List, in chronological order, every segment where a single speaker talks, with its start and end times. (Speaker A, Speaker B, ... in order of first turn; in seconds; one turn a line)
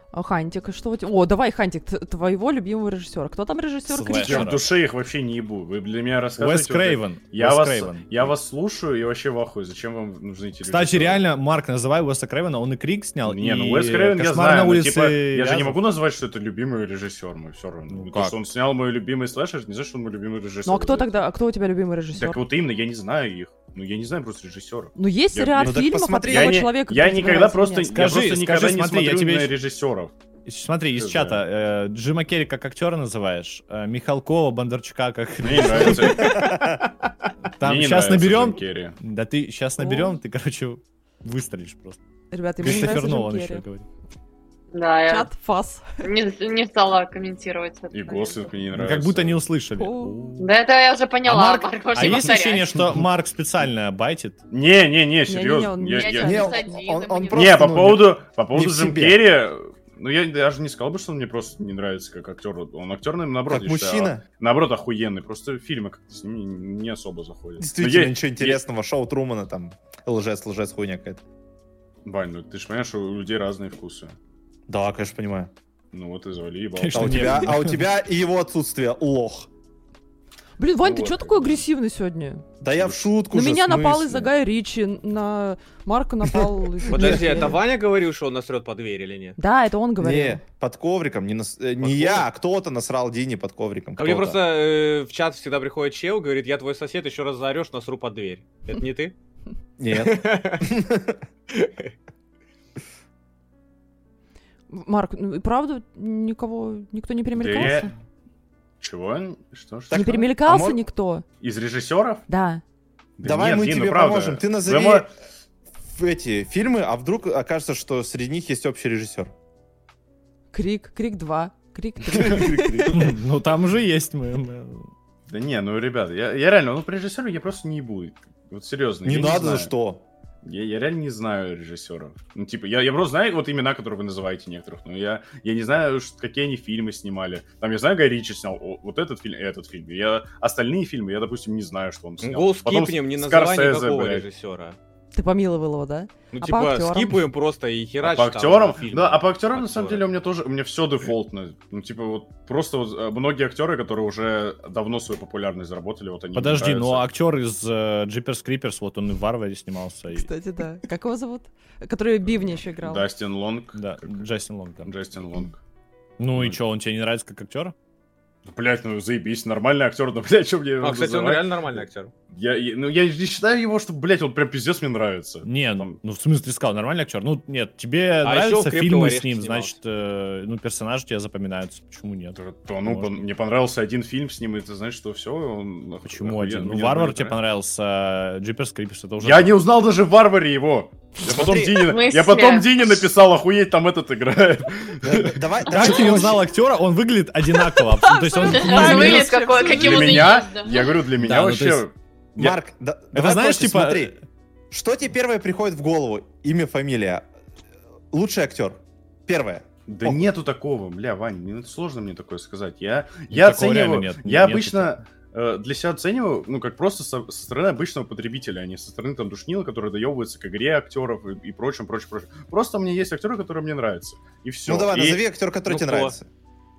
Speaker A: 0.1-4.6
Speaker B: 3.9-4.7
Speaker C: 4.2-11.2
Speaker B: 6.4-8.3
Speaker B: 10.6-15.8
Speaker C: 13.2-21.2
Speaker B: 17.9-18.4
Speaker A: 20.6-22.4
Speaker C: 22.1-30.1
Speaker A: 25.0-28.0
Speaker D: 25.6-26.7
Speaker B: 27.9-29.5
Speaker B: 30.5-36.5
Speaker C: 31.0-31.4
Speaker C: 35.4-36.8
Speaker D: 36.2-36.8
Speaker B: 37.6-42.0
Speaker C: 37.6-39.0
Speaker A: 39.8-40.2
Speaker A: 42.3-43.6
Speaker B: 42.6-43.9
Speaker E: 44.7-45.3
Speaker A: 45.1-45.9
Speaker E: 46.0-48.6
Speaker C: 47.9-49.4
Speaker B: 48.7-50.5
Speaker A: 49.8-50.2
Speaker E: 50.4-52.9
Speaker B: 51.2-54.4
Speaker C: 54.5-56.4
Speaker A: 55.3-56.8
Speaker E: 56.0-57.7
Speaker D: 56.2-59.2
Speaker C: 57.3-68.6
Speaker D: 63.5-64.3
Speaker D: 67.6-71.2
Speaker C: 72.0-74.2
Speaker D: 74.7-75.5
Speaker C: 75.9-77.5
Speaker B: 76.8-77.8
Speaker D: 76.9-79.5
Speaker A: 80.6-82.4
Speaker C: 80.8-81.6
Speaker D: 82.6-84.3
Speaker C: 82.8-83.1
Speaker A: 83.3-87.6
Speaker D: 86.3-87.6
Speaker F: 86.9-89.4
Speaker A: 89.4-90.4
Speaker D: 90.0-94.4
Speaker F: 91.8-92.3
Speaker F: 94.0-99.2
Speaker D: 99.8-101.2
Speaker F: 99.9-100.7
Speaker F: 101.5-101.9
Speaker A: 104.7-107.9
Speaker C: 107.3-107.9
Speaker C: 108.8-110.1
Speaker D: 109.9-110.8
Speaker A: 109.9-111.2
Speaker C: 111.4-112.2
Speaker A: 112.3-112.6
Speaker C: 113.2-115.1
Speaker D: 113.2-115.1
Speaker D: 115.9-119.3
Speaker A: 120.5-123.0
Speaker D: 122.1-123.1
Speaker B: 122.9-124.9
Speaker C: 125.3-129.7
Speaker D: 129.0-130.1
Speaker C: 130.4-144.3
Speaker F: 142.2-144.8
Speaker A: 145.1-147.2
Speaker F: 146.3-150.1
Speaker C: 148.0-157.1
Speaker B: 156.3-160.3
Speaker A: 160.1-163.1
Speaker C: 162.4-164.3
Speaker B: 163.7-164.9
Speaker C: 164.8-165.6
Speaker B: 166.2-167.7
Speaker C: 168.5-175.9
Speaker F: 170.8-172.1
Speaker B: 175.4-183.2
Speaker F: 178.2-179.8
Speaker C: 182.3-187.4
Speaker B: 186.1-189.6
Speaker C: 189.2-195.4
Speaker D: 191.2-191.8
Speaker E: 191.8-192.7
Speaker D: 195.0-196.4
Speaker B: 195.7-199.3
Speaker A: 197.5-200.4
Speaker E: 198.4-201.0
Speaker C: 199.5-202.6
Speaker B: 201.2-201.8
Speaker D: 202.4-204.2
Speaker B: 203.1-204.2
Speaker D: 204.7-207.3
Speaker D: 208.1-210.3
Speaker C: 209.9-225.2
Speaker B: 213.3-215.0
Speaker D: 224.7-226.3
Speaker F: 225.7-226.2